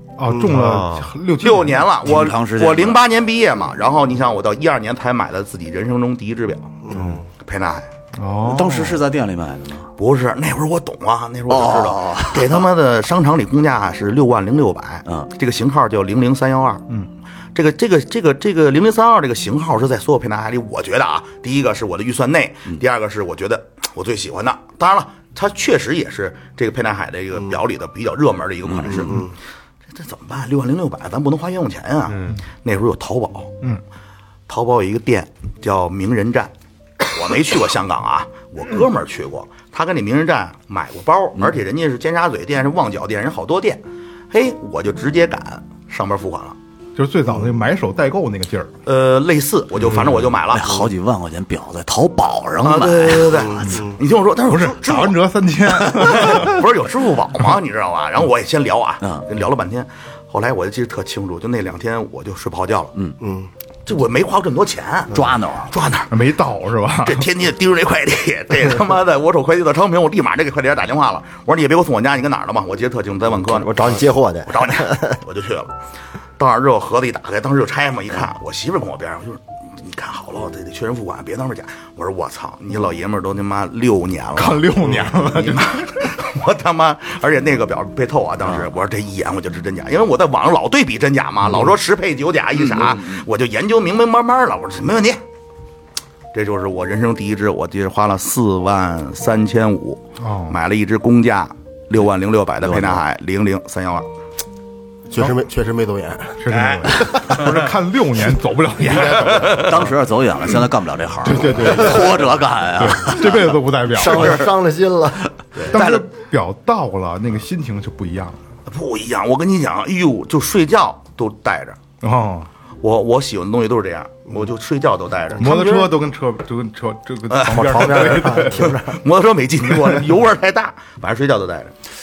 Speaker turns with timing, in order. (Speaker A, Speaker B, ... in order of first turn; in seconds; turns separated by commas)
Speaker A: 0.2-1.9, Speaker B: 0.4-1.1, Speaker C: 1.4-7.9, Speaker D: 2.0-3.0, Speaker A: 8.2-9.0, Speaker D: 8.4-9.9, Speaker C: 10.0-16.9, Speaker D: 11.5-12.7, Speaker C: 17.6-29.2, Speaker D: 28.8-29.1, Speaker E: 29.0-29.3, Speaker C: 29.9-33.6, Speaker C: 34.5-46.6, Speaker A: 47.0-48.7, Speaker C: 48.9-50.8, Speaker D: 50.5-53.6, Speaker C: 52.6-55.2, Speaker A: 54.5-56.6, Speaker C: 55.7-62.9, Speaker E: 63.2-63.5, Speaker C: 63.9-65.1, Speaker D: 65.1-65.7, Speaker C: 65.7-66.1, Speaker A: 66.1-67.3, Speaker C: 67.0-75.7, Speaker B: 73.4-75.2, Speaker C: 76.4-95.2, Speaker A: 84.4-86.0, Speaker D: 92.7-93.2, Speaker C: 96.3-104.1, Speaker A: 100.2-100.6, Speaker D: 102.6-103.0, Speaker E: 105.1-106.4, Speaker A: 106.4-109.5, Speaker C: 106.5-107.7, Speaker E: 108.8-109.8, Speaker C: 109.0-109.9, Speaker D: 109.5-113.6, Speaker A: 111.2-112.2, Speaker E: 111.5-112.2, Speaker A: 112.8-114.5, Speaker B: 114.0-115.3, Speaker E: 114.2-114.5, Speaker A: 115.7-118.4, Speaker C: 115.7-116.0, Speaker C: 118.7-121.8, Speaker A: 122.0-122.5, Speaker C: 122.8-125.8, Speaker A: 125.4-128.8, Speaker C: 127.3-131.7, Speaker B: 127.5-128.8, Speaker A: 129.7-130.0